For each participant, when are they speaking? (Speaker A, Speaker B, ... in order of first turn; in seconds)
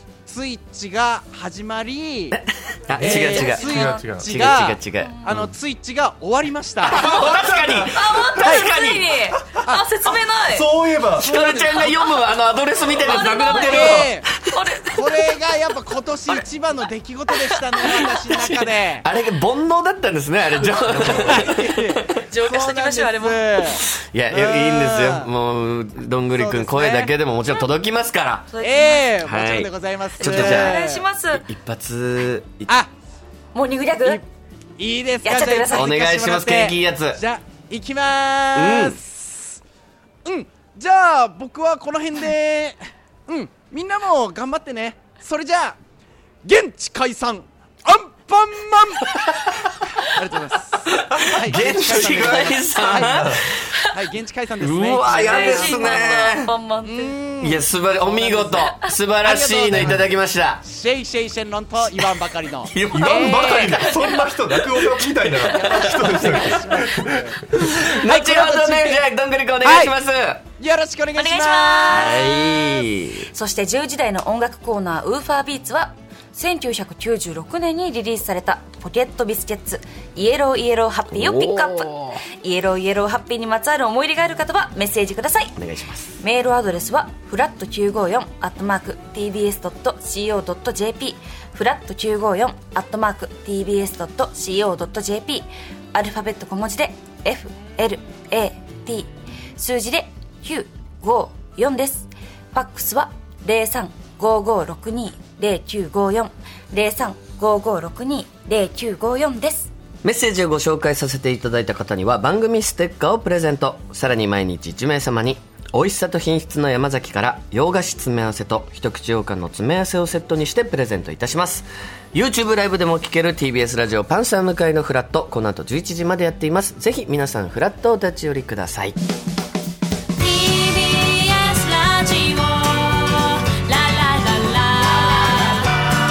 Speaker A: 0.3-2.4, 3.0-7.2, 8.3-8.8, 9.5-9.9, 11.2-12.0, 13.4-19.1, 20.9-25.3, 26.3-27.1, 28.6-31.1, 34.8-39.6, 40.2-45.8, 46.4-49.1, 50.0-53.2, 53.9-56.1, 56.8-58.6, 59.2-60.0, 60.6-64.1, 65.2-69.0, 69.6-69.9, 70.6-72.0
Speaker B: 2.3-5.5, 6.8-9.2, 11.2-15.0, 17.8-22.2, 23.8-28.5, 29.2-30.8, 31.3-32.7, 35.7-37.2, 38.5-39.0, 49.1-49.5, 50.9-53.7, 54.6-56.6, 57.4-60.6, 62.0-66.1, 67.8-70.4, 71.9-73.3, 81.1-82.2, 85.6-86.2, 110.0-129.0
Speaker C: 3.0-4.3, 7.0-8.3, 10.3-11.4, 51.1-53.5, 59.7-60.0, 62.9-67.9
Speaker D: 3.3-4.0, 5.0-5.4, 8.0-10.7, 13.0-15.5, 22.2-23.6, 28.5-29.1, 30.2-31.4, 33.5-34.2, 35.2-36.0, 55.1-57.2, 58.6-59.0, 71.2-85.6, 86.2-109.7, 130.2-135.7